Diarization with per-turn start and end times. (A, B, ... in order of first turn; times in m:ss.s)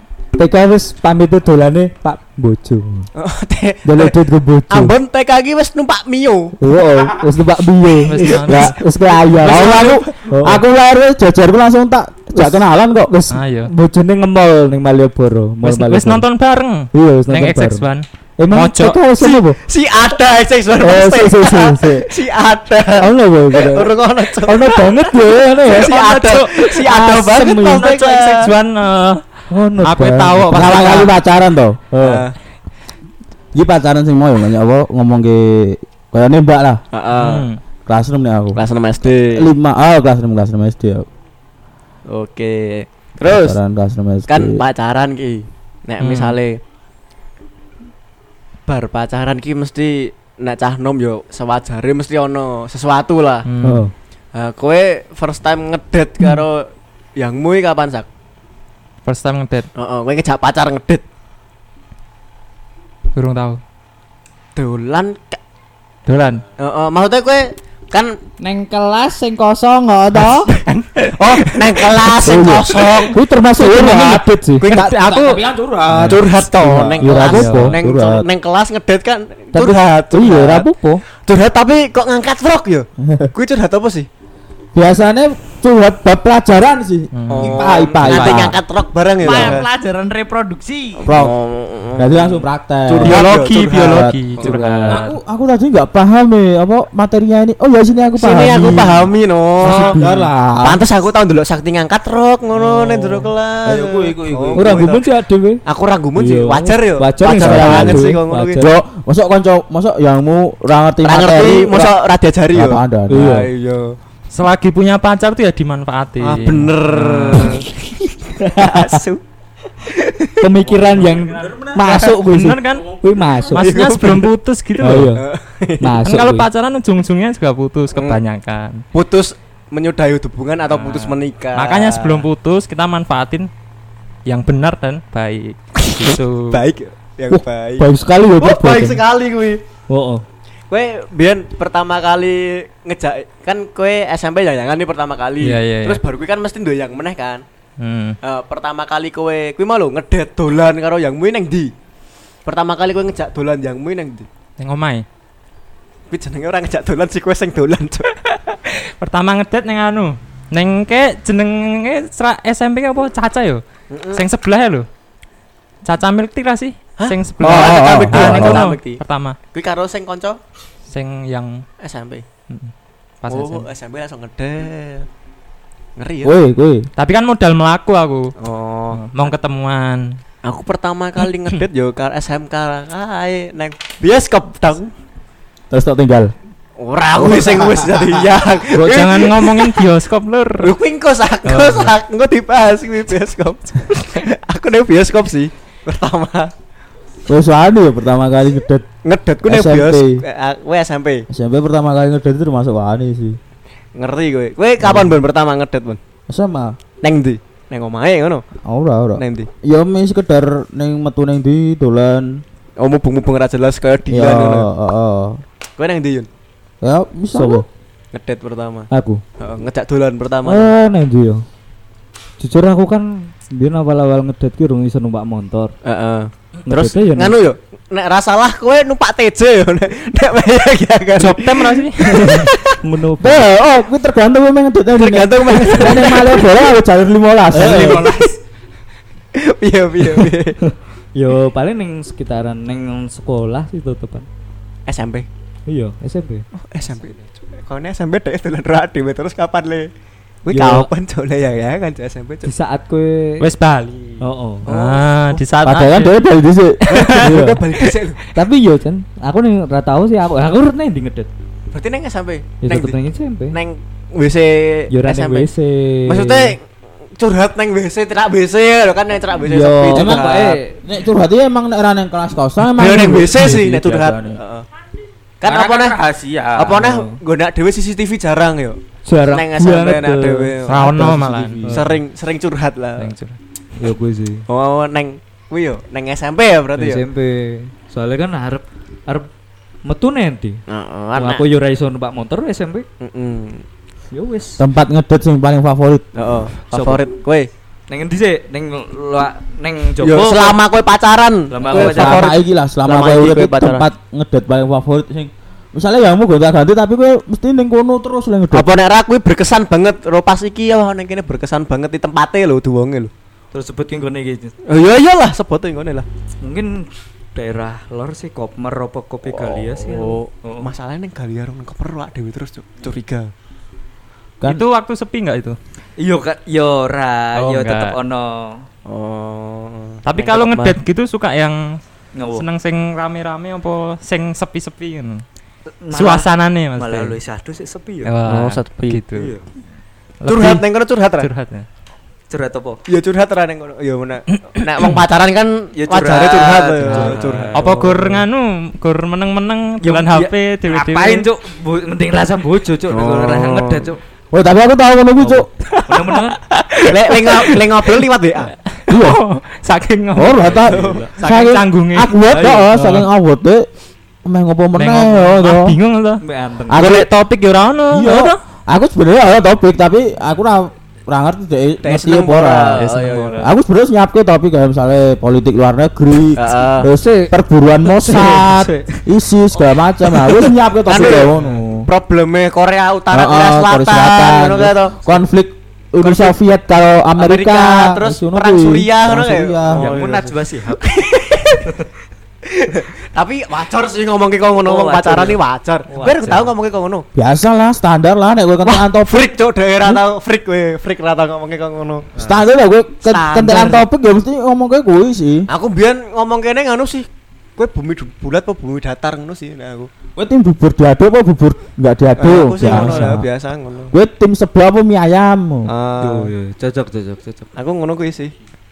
0:00.3-0:03.1 A
0:03.1-0:04.1 B
0:03.9-0:04.8 A
0:03.9-0:04.9 C
0:04.7-0:06.5 B
0:06.6-0:10.6 A
0:08.1-0:08.8 D
0:08.2-0:13.4 C
0:08.5-0:10.1 B
0:12.3-0:16.2 A
0:13.3-0:13.7 D
0:15.6-0:19.0 D
0:16.9-0:17.8 A
0:18.4-0:19.6 A
0:19.2-0:25.0 B
0:20.8-0:22.1 A
0:21.0-0:21.8 C
0:23.0-0:23.9 A
0:24.4-0:25.9 A
0:25.6-0:28.5 B
0:25.7-0:29.3 D
0:26.9-0:27.9 C
0:29.5-0:30.7 A
0:29.8-0:31.1 D
0:30.4-0:32.2 C
0:32.0-0:32.3 B
0:33.5-0:36.8 C
0:36.9-0:37.4 B
0:37.2-0:37.6 D
0:37.9-0:38.6 C
0:38.5-0:39.5 B
0:39.1-0:41.1 C
0:42.1-0:43.6 B
0:43.2-0:44.6 C
0:44.3-0:46.6 B
0:46.0-0:46.4 D
0:48.7-0:53.4 B
0:53.4-0:53.8 D
0:53.6-0:53.9 A
0:54.3-0:58.1 B
0:59.0-0:59.7 D
0:59.8-1:01.0 B
1:03.1-1:03.6 D
1:04.5-1:05.4 B
1:06.1-1:06.4 D
1:06.6-1:08.2 B
1:08.4-1:10.6 E
1:11.0-1:13.2 B
1:12.2-1:13.0 C
1:13.1-1:14.7 A
1:13.5-1:18.2 C
1:14.6-1:15.4 B
1:15.9-1:24.1 B
1:17.0-1:17.8 A
1:17.1-1:17.8 D
1:19.6-1:20.9 C
1:19.6-1:21.0 A
1:23.0-1:23.3 C
1:24.7-1:28.6 C
1:27.1-1:27.5 D
1:27.3-1:29.7 B
1:27.4-1:28.4 E
1:29.2-1:31.2 E
1:29.2-1:29.6 C
1:31.0-1:31.3 C
1:31.0-1:35.0 B
1:32.0-1:34.2 C
1:33.0-1:35.2 D
1:34.4-1:35.0 A
1:34.9-1:39.1 C
1:38.2-1:39.9 B
1:39.6-1:40.8 C
1:39.6-1:40.3 A
1:40.6-1:45.0 B
1:42.6-1:43.2 A
1:43.6-1:45.0 C
1:44.5-1:45.6 A
1:45.6-1:48.6 B
1:46.2-1:48.8 A
1:47.3-1:52.0 C
1:51.0-1:54.0 B
1:52.5-1:53.3 C
1:53.1-1:53.5 A
1:54.3-1:57.6 D
1:56.2-1:59.2 B
1:58.4-1:59.0 A
1:59.8-2:00.5 B
2:00.4-2:03.7 A
2:00.7-2:02.2 C
2:01.7-2:02.5 E
2:01.8-2:02.2 B
2:02.1-2:02.9 D
2:02.7-2:03.4 C
2:03.5-2:05.1 D
2:03.6-2:04.3 B
2:04.8-2:05.2 A
2:04.9-2:06.0 B
2:05.8-2:06.5 A
2:06.0-2:08.8 D
2:08.9-2:12.2 B
2:10.7-2:13.5 D
2:14.2-2:16.6 D
2:16.5-2:19.6 B
2:17.3-2:18.5 A
2:17.9-2:19.0 C
2:19.9-2:20.2 A
2:20.7-2:27.4 B
2:25.4-2:26.0 D
2:27.8-2:28.2 D
2:28.2-2:31.7 B
2:32.4-2:34.3 B
2:34.6-2:35.0 D
2:36.1-2:38.1 B
2:38.6-2:43.6 D
2:43.9-2:44.2 B
2:44.1-2:44.9 D
2:45.8-2:49.4 D
2:47.0-2:49.0 B
2:47.4-2:48.6 C
2:49.5-2:50.4 B
2:50.9-2:51.6 D
2:51.8-2:52.2 B
2:52.5-2:53.7 D
2:53.3-2:55.1 B
2:56.0-2:56.3 B
2:56.2-2:56.9 C
2:57.0-2:58.3 D
2:58.4-2:59.0 B
2:58.9-3:00.2 D
3:00.4-3:04.9 B
3:05.7-3:06.3 C
3:06.8-3:09.8 B
3:07.1-3:08.2 C
3:08.7-3:10.8 D
3:10.6-3:16.5 B
3:11.4-3:11.9 D
3:17.3-3:18.8 C
3:19.0-3:21.2 B
3:19.4-3:20.2 C
3:21.3-3:23.4 C
3:24.0-3:26.0 B
3:24.8-3:25.2 C
3:26.3-3:26.8 C
3:27.0-3:28.4 B
3:28.6-3:32.4 C
3:29.2-3:29.5 B
3:32.8-3:34.7 B
3:34.1-3:35.4 C
3:35.8-3:36.3 B
3:36.8-3:37.6 C
3:37.3-3:37.6 A
3:38.1-3:38.9 B
3:38.9-3:39.2 A
3:39.4-3:40.7 B
3:40.4-3:41.4 A
3:42.4-3:45.7 A
3:45.8-3:52.8 B
3:46.6-3:47.4 A
3:51.2-3:52.1 D
3:52.0-3:53.5 A
3:53.2-3:58.0 C
3:55.0-3:56.6 B
3:57.5-3:58.1 A
3:57.5-3:58.3 B
3:59.3-4:00.6 B
4:00.6-4:04.3 A
4:04.8-4:05.3 B
4:05.7-4:06.4 A
4:06.6-4:09.9 B
4:10.4-4:12.5 B
4:10.5-4:10.9 A
4:12.4-4:13.5 A
4:13.4-4:16.1 D
4:14.2-4:14.7 A
4:14.6-4:15.4 B
4:15.6-4:17.6 C
4:16.9-4:18.2 B
4:18.3-4:21.3 A
4:21.7-4:23.0 B
4:22.6-4:23.6 A
4:23.5-4:25.5 B
4:24.9-4:26.5 A
4:26.1-4:26.6 B
4:27.2-4:30.6 B
4:29.4-4:30.8 A
4:29.9-4:34.4 C
4:32.7-4:34.6 B
4:35.4-4:36.0 B
4:35.4-4:36.8 C
4:36.6-4:41.0 B
4:36.8-4:37.2 A
4:39.0-4:41.9 A
4:40.7-4:41.6 D
4:40.8-4:41.9 C
4:41.7-4:43.1 B
4:43.0-4:43.4 D
4:43.8-4:44.4 A
4:44.5-4:47.0 B
4:46.8-4:49.3 A
4:49.8-4:50.6 A
4:50.7-4:51.4 B
4:51.1-4:52.8 A
4:53.0-4:53.6 B
4:54.1-4:54.6 A
4:54.6-4:56.0 C
4:56.1-4:57.5 B
4:56.7-4:57.0 A
4:57.9-5:00.6 A
5:00.0-5:03.8 B
5:01.5-5:02.3 A
5:01.7-5:08.7 C
5:08.5-5:13.1 B
5:13.5-5:14.5 A
5:14.7-5:16.0 B
5:16.4-5:20.7 A
5:19.3-5:23.3 B
5:24.4-5:25.6 D
5:26.0-5:28.6 A
5:27.3-5:27.9 D
5:28.9-5:30.8 B
5:30.0-5:35.2 D
5:32.1-5:32.4 A
5:35.8-5:38.1 A
5:35.9-5:37.2 D
5:38.0-5:39.3 D
5:38.3-5:39.0 B
5:39.1-5:39.4 A
5:40.2-5:40.6 D
5:40.2-5:41.3 B
5:41.2-5:41.6 D
5:42.3-5:42.8 A
5:42.9-5:47.8 B
5:45.7-5:48.2 A
5:46.8-5:51.3 D
5:49.8-5:54.0 A
5:52.9-5:53.9 B
5:54.3-5:55.5 C
5:55.2-5:56.4 A
5:56.8-5:58.5 B
5:57.1-5:57.4 D
5:58.8-6:02.2 D
5:58.9-5:59.2 C
6:00.1-6:03.6 C
6:00.6-6:01.5 B
6:00.6-6:01.0 A
6:02.3-6:03.0 A
6:04.2-6:05.8 C
6:04.7-6:08.4 D
6:06.2-6:06.8 A
6:06.7-6:07.1 C
6:07.9-6:21.9 C
6:11.8-6:13.5 B
6:12.8-6:13.4 A
6:16.3-6:16.9 B
6:16.8-6:18.9 A
6:20.1-6:20.4 A
6:20.9-6:21.3 B
6:21.8-6:25.2 B
6:23.1-6:29.9 C
6:26.0-6:26.3 B
6:27.2-6:31.6 B
6:29.7-6:31.1 A
6:31.6-6:31.8 A
6:32.4-6:37.0 B
6:34.6-6:36.5 A
6:37.1-6:39.3 C
6:38.6-6:42.0 B
6:42.2-6:45.5 C
6:43.0-6:43.8 B
6:45.5-6:49.9 B
6:50.2-6:53.3 C
6:52.2-6:53.9 B
6:52.6-6:53.2 A
6:53.9-6:55.7 C
6:55.7-6:56.3 B
6:56.0-6:57.5 A
6:57.5-6:58.3 B